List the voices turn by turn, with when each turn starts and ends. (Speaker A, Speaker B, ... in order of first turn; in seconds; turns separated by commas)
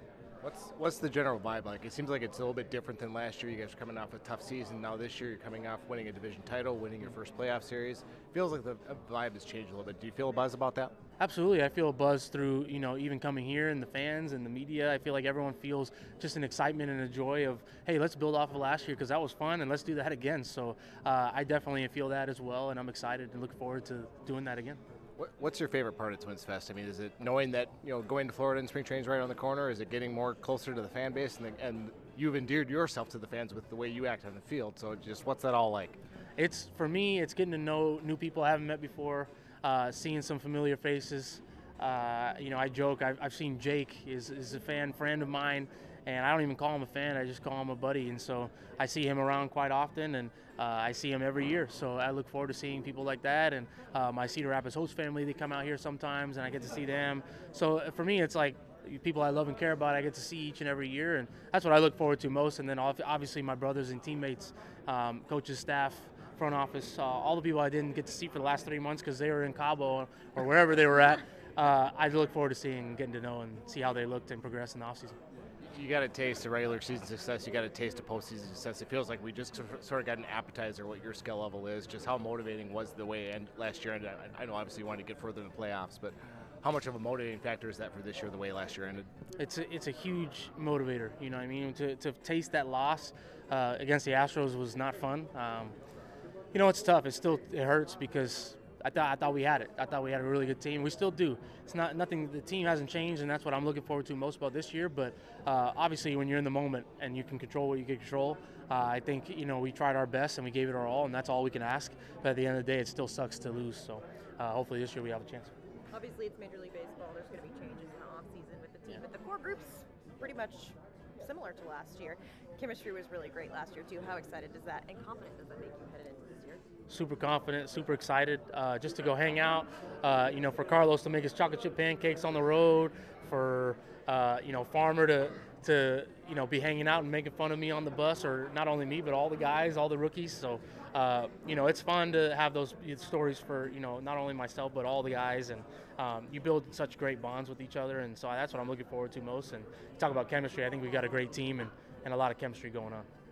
Speaker A: 0.4-10.9, Speaker B: 11.2-24.8, Speaker A: 25.2-36.0, Speaker B: 36.4-75.2, Speaker A: 75.7-89.1, Speaker B: 89.4-95.8, Speaker B: 96.5-115.5, Speaker C: 115.9-126.6, Speaker B: 126.9-153.1